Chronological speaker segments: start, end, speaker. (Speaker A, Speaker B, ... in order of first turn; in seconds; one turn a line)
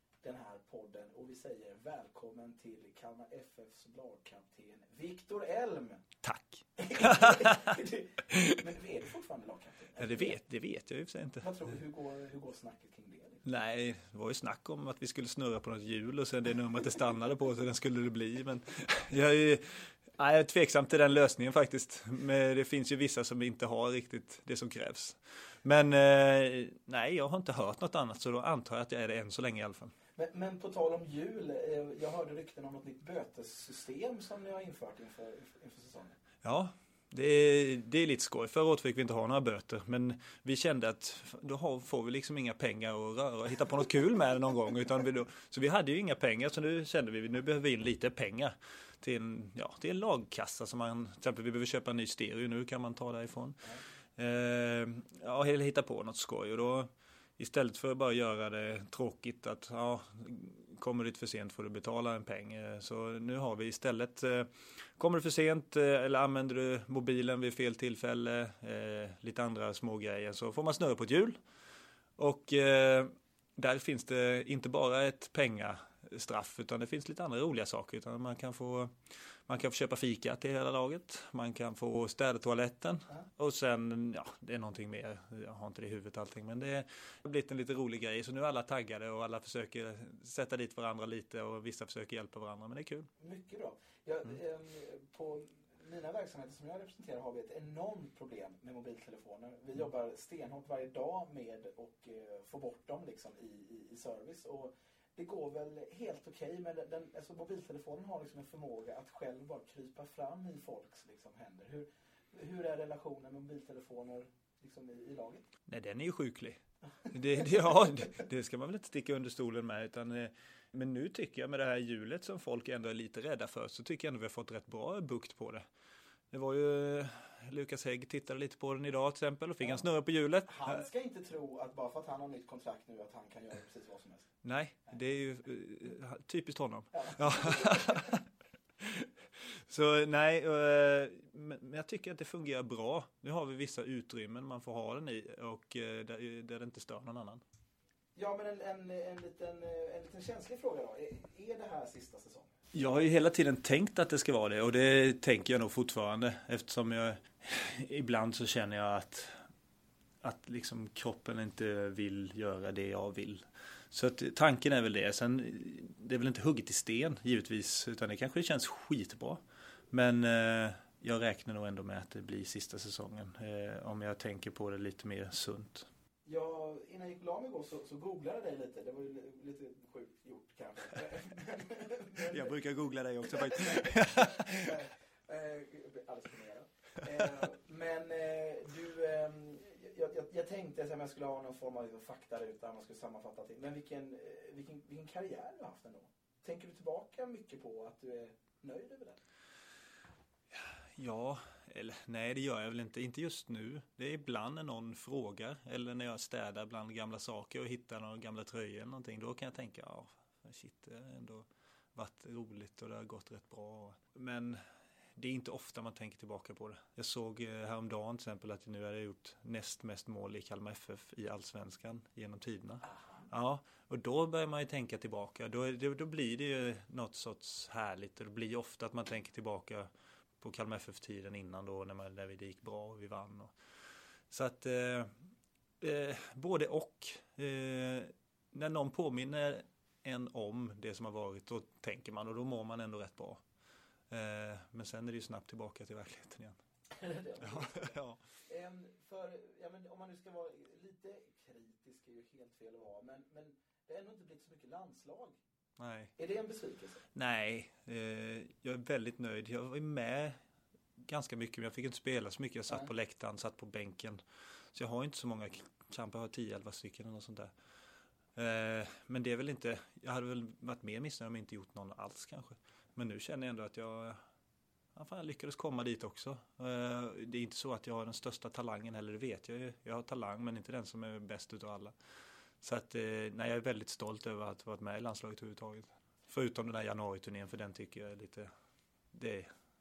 Speaker A: 0.2-6.0
Speaker B: 6.2-8.6
Speaker A: 6.8-10.4
Speaker B: 10.0-11.5
Speaker A: 11.4-13.4
Speaker B: 13.4-29.9
Speaker A: 30.2-36.2
Speaker B: 36.4-53.6
Speaker B: 54.2-71.3
Speaker B: 72.2-93.1
Speaker A: 93.2-115.5
Speaker B: 115.7-116.6
Speaker B: 117.1-125.7
Speaker B: 126.3-130.8
Speaker A: 130.5-134.3
Speaker B: 134.4-138.2
Speaker A: 136.9-138.1
Speaker B: 138.8-147.4
Speaker A: 148.2-152.5
Speaker B: 152.7-159.3
Speaker B: 160.2-175.9
Speaker A: 176.2-182.5
Speaker B: 182.2-184.8
Speaker A: 183.3-199.2
Speaker B: 200.5-214.6
Speaker B: 215.2-229.9
Speaker A: 222.9-223.3
Speaker B: 230.4-233.5
Speaker B: 234.3-235.1
Speaker B: 235.8-243.4
Speaker B: 244.1-246.6
Speaker A: 246.9-247.9
Speaker B: 247.4-248.2
Speaker A: 248.5-255.4
Speaker B: 255.8-256.1
Speaker A: 256.2-257.1
Speaker B: 257.1-260.4
Speaker B: 261.0-264.2
Speaker B: 264.7-267.5
Speaker B: 268.4-274.2
Speaker B: 274.9-282.0
Speaker B: 282.6-288.5
Speaker B: 289.1-289.5